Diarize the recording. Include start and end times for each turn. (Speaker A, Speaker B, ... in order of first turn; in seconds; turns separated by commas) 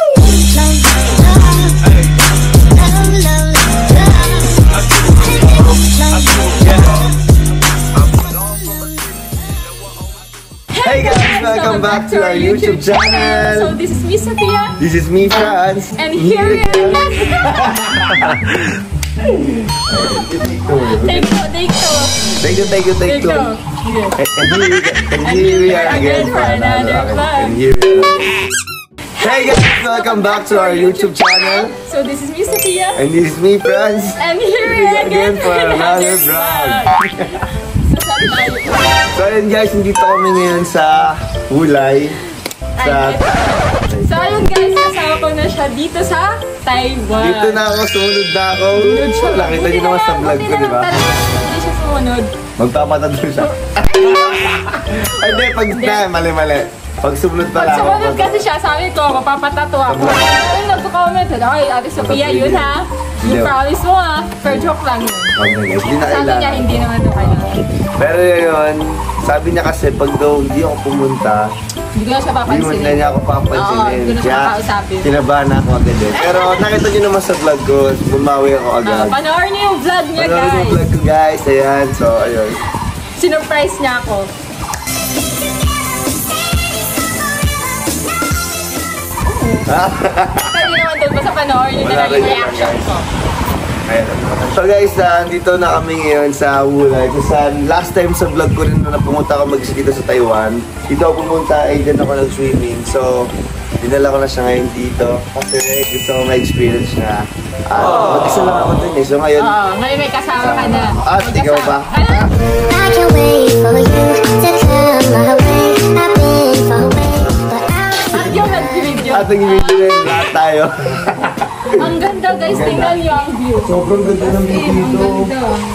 Speaker A: 0.3-0.8, Speaker A: 2.8-3.4, Speaker A: 5.7-6.8, Speaker B: 8.0-8.6, Speaker C: 10.7-14.8, Speaker B: 10.8-13.8, Speaker B: 14.8-18.4, Speaker C: 16.0-18.2, Speaker B: 19.9-21.3, Speaker C: 21.0-22.4, Speaker B: 22.4-23.5, Speaker C: 23.0-24.2, Speaker B: 24.2-28.4, Speaker C: 25.2-27.6, Speaker C: 29.2-33.0, Speaker B: 29.2-31.7, Speaker B: 33.0-37.4, Speaker C: 34.2-36.9, Speaker C: 37.8-38.9, Speaker B: 39.1-42.2, Speaker B: 42.8-44.2, Speaker C: 42.8-47.6, Speaker B: 47.2-50.9, Speaker C: 48.8-52.3, Speaker B: 52.6-58.4, Speaker C: 55.7-56.0, Speaker C: 57.5-65.3, Speaker B: 59.9-60.2, Speaker B: 62.0-63.6, Speaker B: 65.3-66.9, Speaker C: 65.9-67.6, Speaker B: 68.0-71.5, Speaker C: 72.0-75.1, Speaker B: 72.5-79.2, Speaker C: 76.2-76.6, Speaker C: 78.9-80.8, Speaker B: 80.2-82.6, Speaker C: 83.2-84.3, Speaker B: 89.7-90.7, Speaker C: 90.5-93.0, Speaker B: 91.7-92.9, Speaker B: 93.9-109.5, Speaker C: 109.4-112.3, Speaker B: 110.3-112.1, Speaker A: 112.7-118.6, Speaker C: 118.1-119.9, Speaker B: 119.0-121.9, Speaker C: 121.7-125.6, Speaker B: 122.5-123.0, Speaker B: 123.6-125.2